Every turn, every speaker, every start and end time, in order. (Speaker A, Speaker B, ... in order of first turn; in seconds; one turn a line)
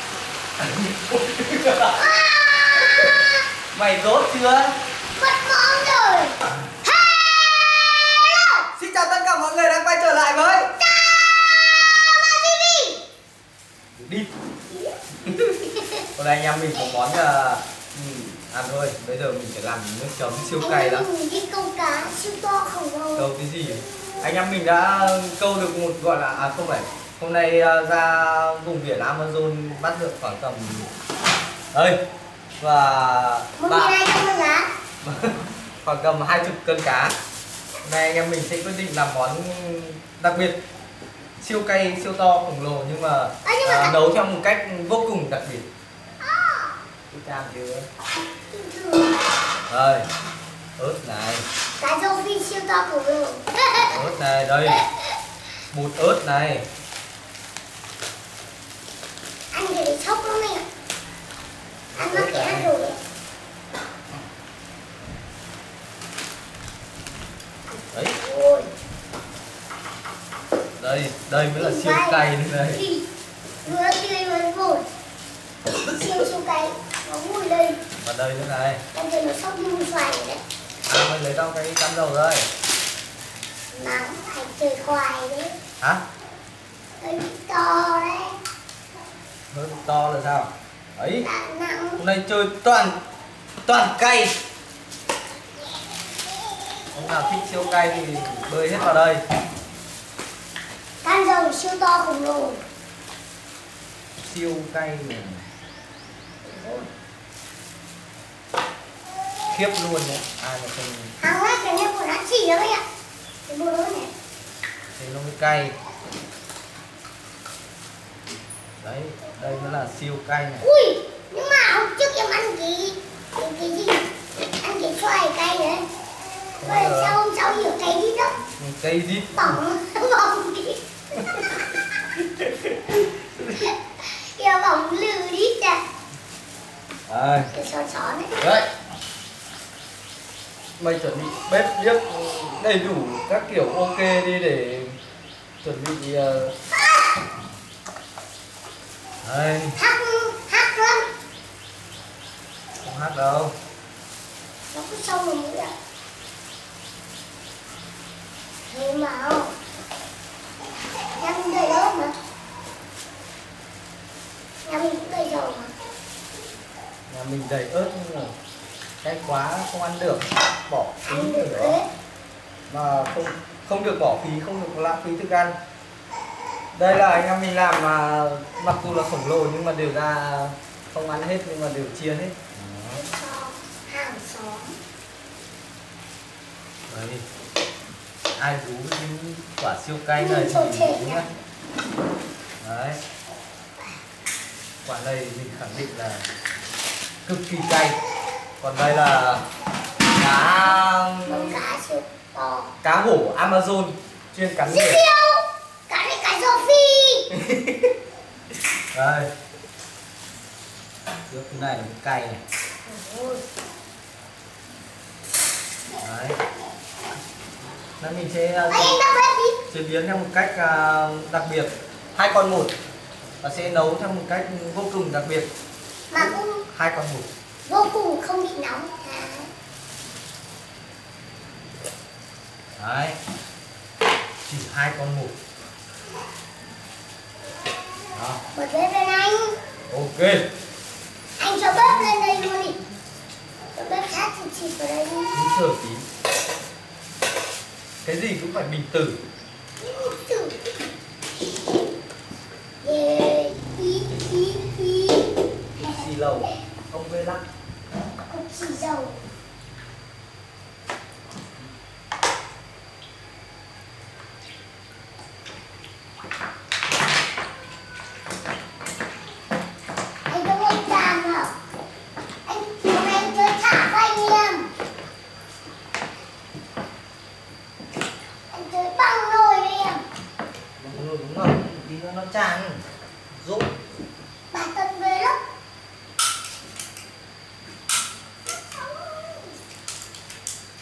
Speaker A: 0.6-2.0
Speaker B: 1.9-3.5
Speaker A: 3.7-4.7
Speaker B: 5.2-8.7
Speaker A: 8.7-10.7
Speaker B: 10.8-13.0
Speaker A: 14.0-14.3
Speaker A: 15.3-15.5
Speaker B: 15.6-16.0
Speaker A: 16.1-21.1
Speaker B: 20.6-23.3
Speaker A: 23.1-30.9
Speaker A: 32.6-34.0
Speaker B: 33.6-34.7
Speaker A: 35.0-37.1
Speaker A: 37.8-40.6
Speaker A: 41.4-45.7
Speaker B: 43.4-44.0
Speaker B: 46.2-46.8
Speaker A: 47.1-47.9
Speaker B: 48.5-49.2
Speaker A: 49.7-50.0
Speaker A: 50.8-51.4
Speaker B: 51.8-54.0
Speaker A: 53.9-54.8
Speaker A: 55.7-56.7
Speaker B: 59.5-60.6
Speaker A: 61.9-62.7
Speaker B: 62.0-63.0
Speaker B: 68.2-68.7
Speaker A: 70.8-72.8
Speaker B: 71.5-73.1
Speaker B: 73.6-74.9
Speaker B: 75.8-77.8
Speaker A: 78.0-78.8
Speaker B: 78.9-80.4
Speaker A: 80.9-82.4
Speaker B: 83.7-85.5
Speaker B: 87.0-88.4
Speaker A: 89.5-91.3
Speaker B: 91.2-92.0
Speaker A: 92.0-93.0
Speaker A: 93.7-94.3
Speaker A: 96.9-99.2
Speaker B: 101.0-102.6
Speaker A: 104.2-105.4
Speaker B: 106.4-106.9
Speaker A: 109.5-111.2
Speaker B: 111.2-112.8
Speaker B: 113.5-114.1
Speaker A: 115.0-115.8
Speaker A: 118.8-120.7
Speaker B: 120.6-124.1
Speaker B: 124.6-125.9
Speaker A: 126.6-127.2
Speaker B: 126.6-128.3
Speaker A: 128.6-129.5
Speaker B: 129.3-131.6
Speaker A: 132.2-133.7
Speaker B: 133.6-135.8
Speaker A: 137.1-137.5
Speaker B: 137.5-138.3
Speaker A: 138.4-138.7
Speaker A: 140.8-145.0
Speaker A: 145.6-146.5
Speaker B: 146.7-147.2
Speaker A: 149.2-149.8
Speaker B: 149.8-151.1
Speaker A: 152.8-153.5
Speaker B: 154.7-155.7
Speaker B: 158.7-159.5
Speaker B: 161.2-162.1
Speaker B: 164.6-165.7
Speaker A: 167.1-168.3
Speaker A: 169.0-171.8
Speaker B: 171.1-171.9
Speaker A: 172.7-175.6
Speaker A: 176.7-183.0
Speaker B: 182.9-184.8
Speaker A: 186.9-187.2
Speaker A: 188.3-191.3
Speaker B: 190.2-191.2
Speaker A: 192.6-193.0
Speaker A: 194.8-196.2
Speaker A: 197.2-198.0
Speaker A: 198.6-199.4
Speaker A: 200.2-201.6
Speaker B: 201.2-202.7
Speaker A: 202.8-205.0
Speaker B: 204.6-207.3
Speaker A: 207.3-207.9
Speaker A: 208.9-209.3
Speaker A: 211.3-212.4
Speaker B: 212.8-213.4
Speaker A: 216.0-216.4
Speaker A: 218.0-218.9
Speaker B: 218.7-219.6
Speaker A: 219.7-222.7
Speaker A: 223.4-225.5
Speaker B: 226.1-226.6
Speaker A: 226.2-227.3
Speaker B: 227.7-229.5
Speaker A: 232.8-233.2
Speaker A: 234.4-235.3
Speaker A: 238.1-238.4
Speaker B: 238.5-239.6
Speaker A: 239.9-240.4
Speaker B: 241.4-242.8
Speaker B: 243.7-245.4
Speaker A: 245.3-246.1
Speaker A: 248.0-249.2
Speaker B: 249.8-250.6
Speaker B: 252.8-256.1
Speaker A: 255.8-257.4
Speaker B: 258.3-259.2
Speaker B: 270.3-271.5
Speaker B: 272.4-274.7
Speaker B: 278.5-280.1
Speaker A: 280.8-282.8
Speaker A: 283.3-283.7
Speaker B: 284.5-285.4
Speaker B: 288.5-289.6